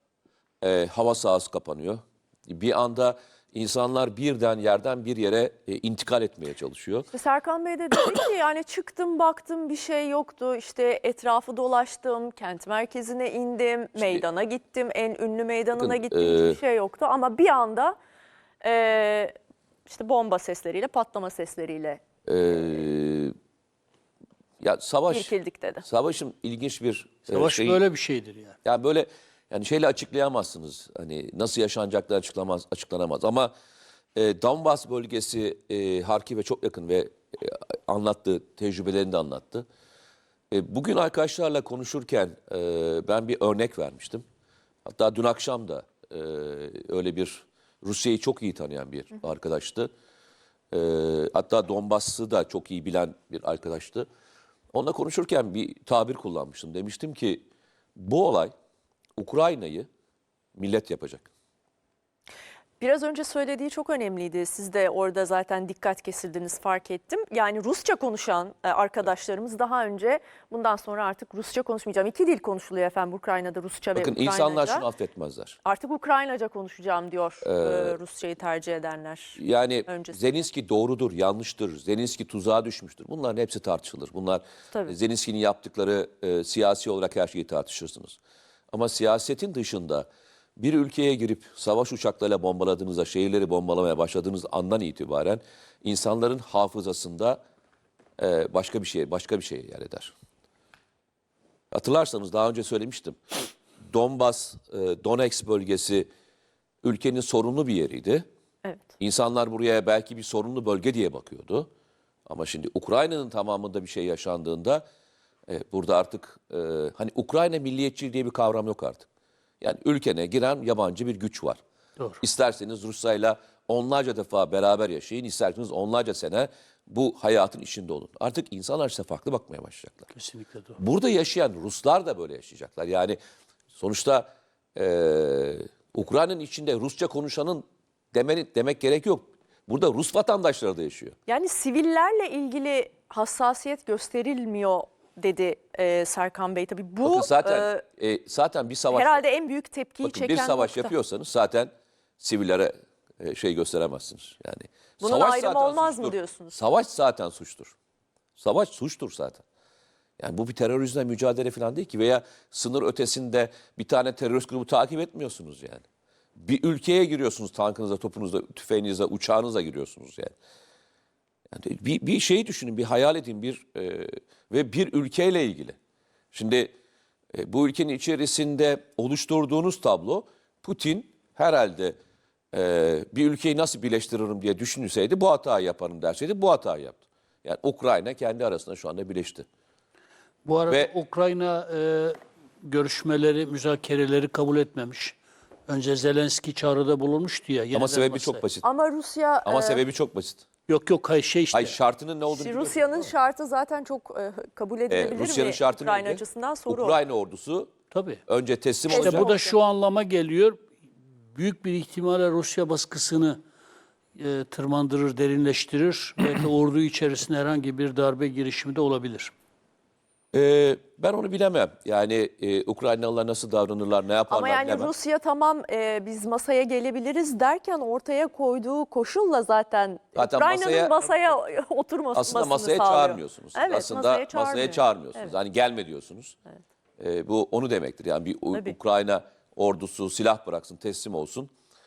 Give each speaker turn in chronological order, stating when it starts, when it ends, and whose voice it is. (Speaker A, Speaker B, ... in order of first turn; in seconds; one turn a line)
Speaker A: 0.6-7.1
Speaker B: 7.1-18.0
Speaker A: 14.0-14.2
Speaker A: 15.8-16.6
Speaker B: 18.6-19.4
Speaker B: 19.9-22.0
Speaker A: 22.3-23.3
Speaker A: 24.6-25.3
Speaker B: 25.1-25.9
Speaker A: 25.9-27.8
Speaker C: 27.3-28.6
Speaker A: 28.6-33.5
Speaker A: 34.2-39.7
Speaker A: 40.5-44.2
Speaker A: 44.9-49.9
Speaker A: 50.7-54.1
Speaker A: 54.7-57.4
Speaker A: 58.0-58.5
Speaker A: 59.2-59.9
Speaker A: 60.5-61.3
Speaker B: 62.8-74.9
Speaker A: 74.0-75.6
Speaker B: 75.6-80.2
Speaker A: 77.4-78.0
Speaker A: 79.4-88.2
Speaker A: 88.7-97.4
Speaker A: 98.2-100.1
Speaker A: 101.7-103.2
Speaker A: 103.8-106.1
Speaker A: 106.8-108.2
Speaker A: 109.0-111.7
Speaker A: 112.3-114.8
Speaker A: 115.5-119.1
Speaker A: 119.6-121.6
Speaker A: 122.2-130.1
Speaker C: 130.1-130.8
Speaker A: 130.8-133.2
Speaker A: 133.7-141.2
Speaker B: 141.3-147.8
Speaker A: 147.0-149.2
Speaker B: 148.9-150.9
Speaker A: 150.0-157.7
Speaker B: 155.0-156.6
Speaker A: 158.4-159.4
Speaker A: 160.2-165.8
Speaker A: 166.4-170.3
Speaker A: 171.5-175.8
Speaker A: 176.3-176.7
Speaker A: 177.3-182.0
Speaker A: 182.5-189.5
Speaker C: 190.4-198.4
Speaker A: 190.7-190.9
Speaker A: 197.7-198.6
Speaker B: 198.6-199.8
Speaker A: 199.4-200.4
Speaker C: 200.7-201.8
Speaker A: 201.5-203.1
Speaker B: 202.3-207.0
Speaker A: 204.9-207.7
Speaker C: 207.9-208.2
Speaker A: 208.3-209.3
Speaker B: 208.9-209.6
Speaker C: 208.9-210.6
Speaker C: 211.3-213.4
Speaker C: 214.2-219.3
Speaker A: 220.3-224.9
Speaker B: 224.3-235.3
Speaker A: 230.2-231.0
Speaker A: 232.1-236.4
Speaker A: 237.0-241.5